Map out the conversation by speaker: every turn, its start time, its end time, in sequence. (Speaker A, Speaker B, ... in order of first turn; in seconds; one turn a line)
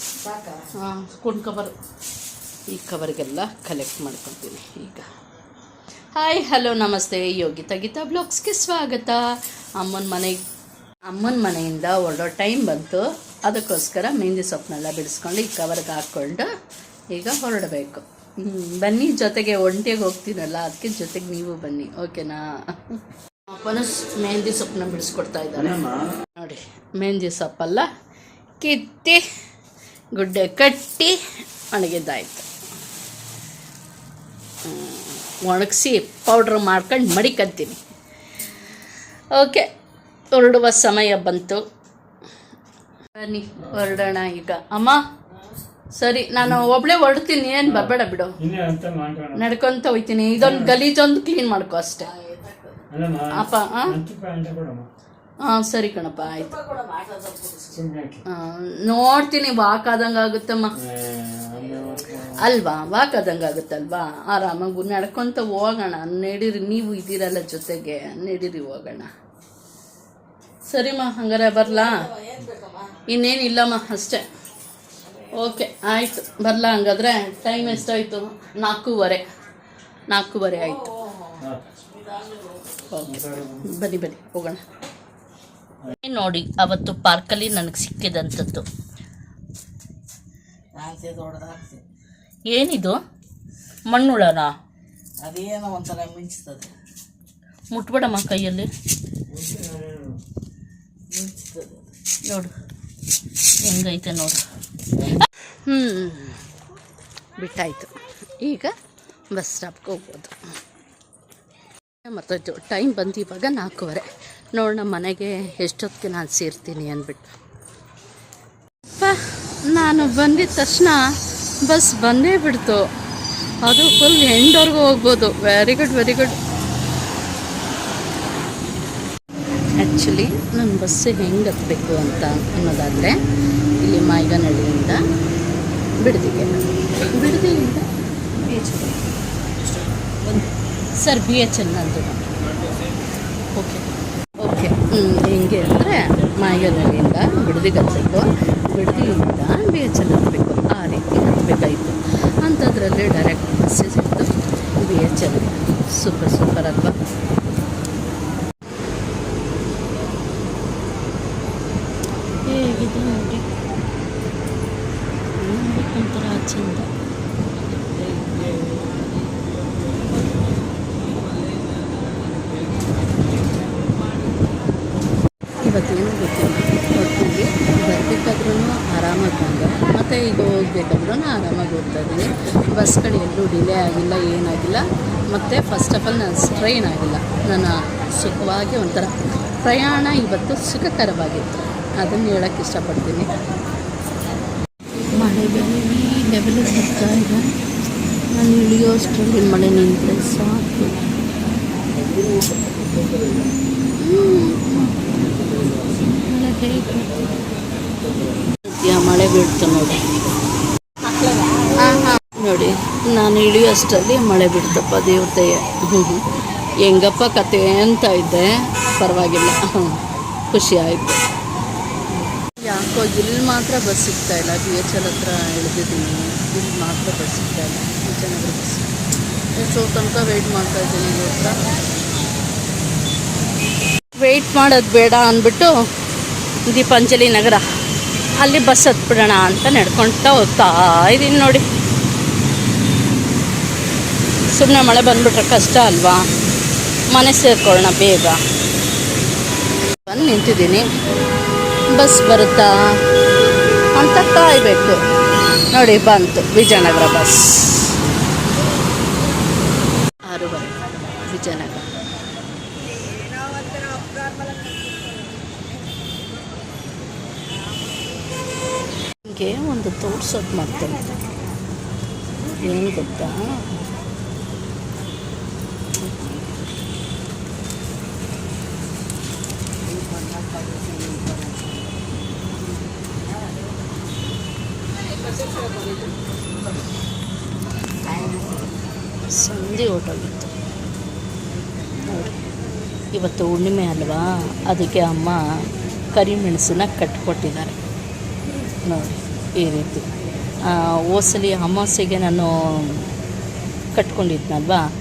Speaker A: 0.6-1.7
Speaker A: 2.7-5.1
Speaker A: 6.1-9.2
Speaker A: 9.8-10.4
Speaker A: 11.1-16.5
Speaker A: 17.1-27.9
Speaker A: 28.6-29.2
Speaker A: 30.1-31.2
Speaker A: 31.7-32.5
Speaker A: 34.6-37.8
Speaker A: 39.3-39.7
Speaker A: 40.3-41.6
Speaker A: 43.1-45.0
Speaker B: 43.6-44.1
Speaker A: 45.9-48.4
Speaker B: 47.6-49.4
Speaker A: 49.3-52.1
Speaker B: 50.4-50.8
Speaker C: 52.2-52.8
Speaker B: 52.9-54.9
Speaker A: 53.3-54.0
Speaker A: 55.4-56.6
Speaker C: 56.4-57.7
Speaker B: 57.7-58.2
Speaker A: 58.2-60.8
Speaker B: 60.8-62.4
Speaker A: 62.3-69.1
Speaker A: 70.7-72.1
Speaker C: 72.1-72.8
Speaker A: 73.0-74.2
Speaker A: 75.2-79.2
Speaker A: 80.1-80.9
Speaker C: 80.9-82.8
Speaker A: 82.9-84.6
Speaker B: 83.0-83.7
Speaker A: 86.0-88.7
Speaker C: 90.7-91.8
Speaker A: 92.5-93.0
Speaker A: 93.9-94.5
Speaker C: 95.2-96.7
Speaker A: 97.7-98.7
Speaker B: 99.3-100.2
Speaker C: 101.1-101.9
Speaker A: 102.2-102.5
Speaker A: 103.6-104.4
Speaker A: 105.2-106.4
Speaker A: 107.4-108.8
Speaker A: 109.3-110.4
Speaker A: 112.0-117.3
Speaker A: 118.9-121.1
Speaker A: 121.6-122.9
Speaker A: 123.6-126.4
Speaker A: 129.7-133.2
Speaker A: 133.8-135.0
Speaker A: 136.0-139.0
Speaker A: 140.2-142.2
Speaker A: 143.5-143.9
Speaker A: 144.4-157.0
Speaker A: 162.4-163.5
Speaker A: 165.4-166.9
Speaker A: 175.6-193.3
Speaker A: 195.1-197.5
Speaker A: 198.3-201.0
Speaker A: 204.0-205.0
Speaker A: 206.1-207.2
Speaker A: 208.7-210.1
Speaker A: 211.6-216.2
Speaker A: 216.8-221.2
Speaker A: 222.5-228.9
Speaker A: 229.6-231.7
Speaker A: 234.2-235.7
Speaker A: 236.7-237.6
Speaker A: 238.4-241.6
Speaker A: 244.5-246.2
Speaker A: 247.1-248.4
Speaker A: 250.0-250.8
Speaker A: 251.9-252.8
Speaker A: 253.9-255.0
Speaker A: 255.7-257.9
Speaker A: 260.3-261.9
Speaker A: 269.2-271.2
Speaker A: 272.6-273.7
Speaker A: 276.0-276.4
Speaker C: 280.0-281.6
Speaker A: 289.3-290.5
Speaker A: 292.1-292.4
Speaker A: 293.1-295.4
Speaker A: 296.1-297.8
Speaker A: 298.8-300.1
Speaker A: 300.6-303.1
Speaker A: 303.9-304.9